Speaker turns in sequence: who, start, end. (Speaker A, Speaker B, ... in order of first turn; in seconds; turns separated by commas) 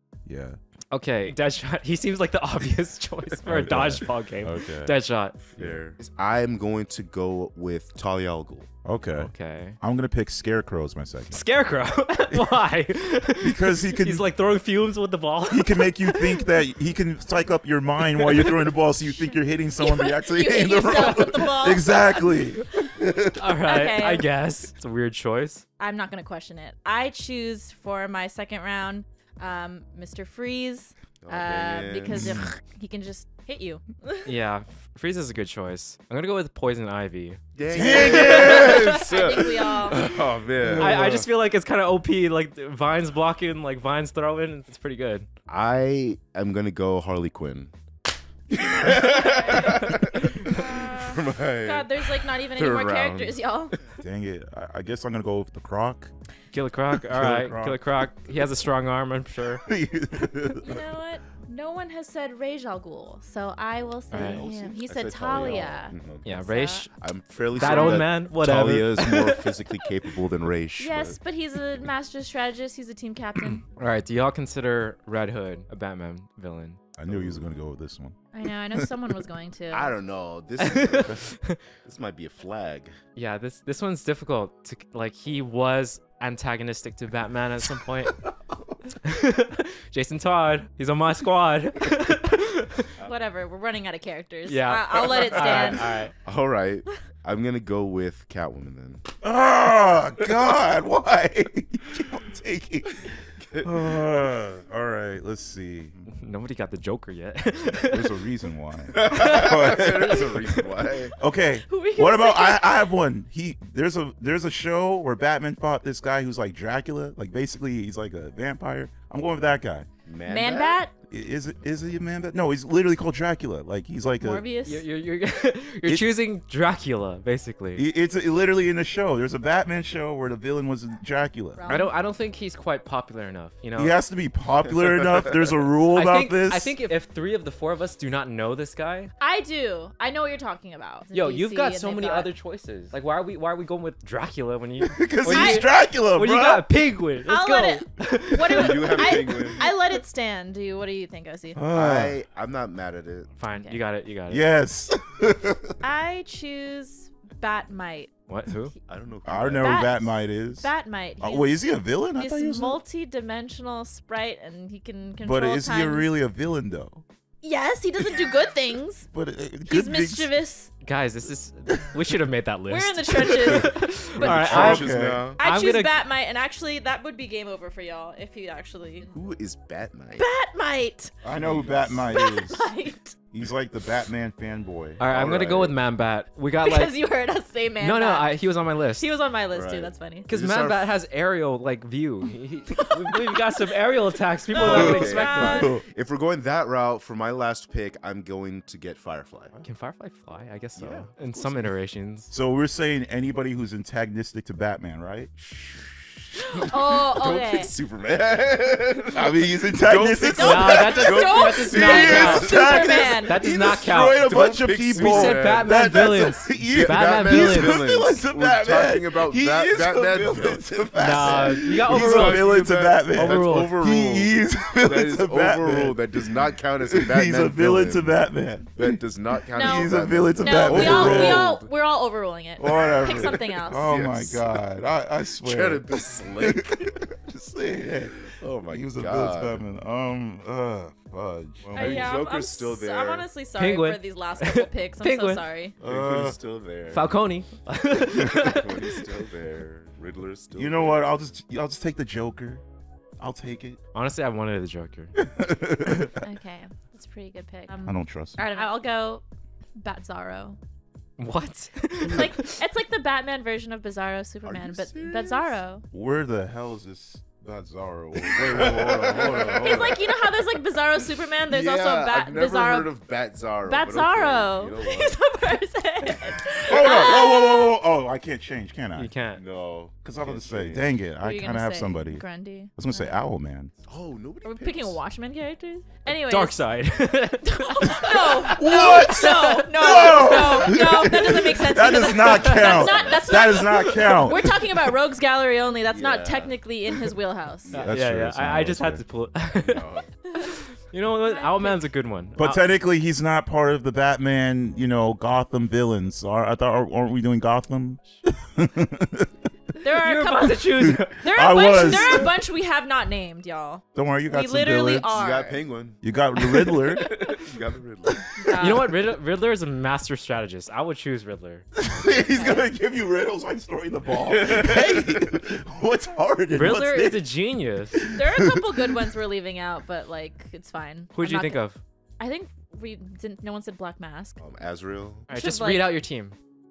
Speaker A: 0.2-0.6, Speaker B: 0.9-5.4, Speaker A: 3.4-4.9, Speaker C: 5.5-8.7, Speaker A: 8.8-11.4, Speaker B: 9.1-9.8, Speaker B: 11.3-16.5, Speaker A: 13.4-14.3, Speaker A: 15.5-23.3, Speaker B: 18.1-18.7, Speaker D: 19.2-22.2, Speaker B: 21.0-21.3, Speaker B: 23.4-25.6, Speaker D: 23.6-24.3, Speaker D: 25.8-34.3, Speaker C: 31.2-32.4, Speaker A: 32.1-32.4, Speaker B: 34.2-37.4, Speaker C: 37.5-41.0, Speaker A: 37.7-38.8, Speaker B: 38.1-38.8, Speaker D: 38.1-40.0, Speaker A: 40.6-41.2, Speaker B: 40.8-45.3, Speaker C: 45.5-47.7, Speaker C: 48.5-53.4, Speaker D: 49.2-49.7, Speaker D: 50.4-53.7, Speaker A: 54.0-56.1, Speaker B: 56.5-59.7, Speaker A: 57.0-57.9, Speaker A: 59.7-60.8, Speaker D: 60.6-66.9, Speaker B: 64.1-64.5, Speaker A: 64.1-64.8, Speaker C: 64.2-66.3, Speaker B: 66.2-66.9, Speaker C: 67.0-71.2, Speaker B: 67.5-69.6, Speaker D: 67.6-68.0, Speaker D: 70.8-73.7, Speaker B: 73.7-76.8, Speaker A: 77.0-78.9, Speaker C: 77.1-77.5, Speaker D: 78.3-79.9, Speaker C: 79.7-81.2, Speaker B: 80.6-81.6, Speaker C: 81.8-82.9, Speaker B: 83.2-88.2, Speaker B: 89.0-92.9, Speaker D: 93.0-95.9, Speaker B: 94.5-96.1, Speaker C: 96.2-99.0, Speaker A: 99.2-106.0, Speaker B: 106.1-108.2, Speaker A: 107.9-110.4, Speaker C: 108.9-111.1, Speaker B: 109.1-110.8, Speaker A: 111.2-119.9, Speaker D: 111.6-112.9, Speaker C: 120.0-120.8, Speaker D: 120.2-120.9, Speaker A: 121.0-124.5, Speaker D: 124.2-124.8, Speaker B: 124.6-127.8, Speaker A: 127.8-131.6, Speaker D: 131.6-131.9, Speaker B: 131.7-133.9, Speaker A: 133.8-136.7, Speaker B: 135.9-139.1, Speaker D: 139.2-142.3, Speaker B: 141.1-149.7, Speaker A: 144.8-146.7, Speaker D: 145.3-145.7, Speaker D: 147.2-151.6, Speaker C: 148.5-149.7, Speaker A: 151.6-152.2, Speaker C: 151.7-153.3, Speaker B: 153.4-154.5, Speaker D: 153.5-153.8, Speaker A: 154.3-155.8, Speaker D: 155.8-158.5, Speaker B: 158.3-158.7, Speaker C: 158.9-159.8, Speaker A: 159.2-162.8, Speaker D: 159.5-166.1, Speaker A: 165.2-167.0, Speaker D: 167.4-169.1, Speaker A: 169.1-170.3, Speaker D: 169.7-170.7, Speaker B: 170.8-175.9, Speaker D: 172.7-173.9, Speaker A: 173.5-175.3, Speaker C: 174.2-175.4, Speaker D: 175.4-179.1, Speaker C: 179.1-180.2, Speaker D: 180.2-181.1, Speaker A: 181.2-182.7, Speaker C: 181.3-182.2, Speaker D: 182.1-183.1, Speaker A: 183.3-185.0, Speaker B: 185.0-187.0, Speaker C: 185.1-185.8, Speaker D: 186.6-188.4, Speaker B: 187.8-189.1, Speaker D: 189.0-190.3, Speaker C: 189.5-190.9, Speaker B: 190.2-195.6, Speaker D: 194.5-195.8, Speaker C: 194.5-199.6, Speaker A: 195.5-195.8, Speaker B: 199.6-202.3, Speaker C: 200.8-201.6, Speaker A: 202.3-205.3, Speaker C: 205.4-212.8, Speaker D: 206.6-207.7, Speaker A: 209.1-226.3, Speaker D: 210.3-213.4, Speaker B: 210.4-212.5, Speaker B: 213.2-217.8, Speaker C: 214.5-215.7, Speaker C: 216.7-228.1, Speaker B: 221.0-222.4, Speaker B: 223.1-223.8, Speaker A: 226.8-231.6, Speaker C: 228.7-231.7, Speaker D: 229.5-234.0, Speaker A: 232.6-242.2, Speaker C: 232.7-234.6, Speaker C: 235.3-236.9, Speaker C: 238.4-239.7, Speaker D: 241.7-245.7, Speaker C: 241.8-243.3, Speaker B: 243.5-245.4, Speaker A: 245.8-246.4, Speaker C: 245.8-247.2, Speaker B: 246.9-249.0, Speaker C: 248.2-251.1, Speaker A: 250.5-252.6, Speaker A: 253.2-253.8, Speaker B: 253.9-255.2, Speaker A: 255.2-256.1, Speaker D: 256.2-259.2, Speaker A: 257.8-258.4, Speaker D: 259.8-260.6, Speaker B: 261.2-262.6, Speaker D: 262.0-265.8, Speaker C: 264.4-265.6, Speaker A: 265.9-270.0, Speaker C: 268.2-270.1, Speaker D: 269.4-272.9, Speaker C: 271.5-275.2, Speaker D: 273.6-277.7, Speaker A: 276.6-279.1, Speaker B: 278.9-279.4, Speaker C: 279.3-280.9, Speaker A: 280.0-283.7, Speaker D: 281.2-283.2, Speaker C: 283.9-285.0, Speaker D: 284.4-286.6, Speaker B: 286.1-290.7, Speaker D: 287.4-297.7, Speaker A: 288.5-294.6, Speaker B: 292.1-292.9, Speaker C: 292.7-293.3, Speaker B: 293.5-294.2, Speaker C: 295.9-296.6, Speaker A: 297.7-299.0, Speaker B: 297.7-302.6, Speaker C: 299.5-300.1, Speaker D: 301.2-301.9, Speaker A: 302.4-309.3, Speaker D: 309.8-315.6, Speaker B: 310.0-312.2, Speaker A: 310.9-312.4, Speaker A: 313.9-315.1, Speaker C: 315.1-316.0, Speaker A: 316.0-317.1, Speaker B: 316.9-317.3, Speaker C: 317.0-318.3, Speaker A: 318.4-318.8, Speaker D: 318.4-318.9, Speaker B: 318.5-321.9, Speaker A: 321.8-327.3, Speaker D: 322.1-322.7, Speaker C: 324.3-325.1, Speaker B: 326.5-328.0, Speaker A: 327.9-328.6, Speaker D: 328.1-331.6, Speaker B: 331.1-331.8, Speaker D: 332.2-334.4, Speaker C: 334.4-335.3, Speaker B: 335.3-336.4, Speaker D: 335.3-336.0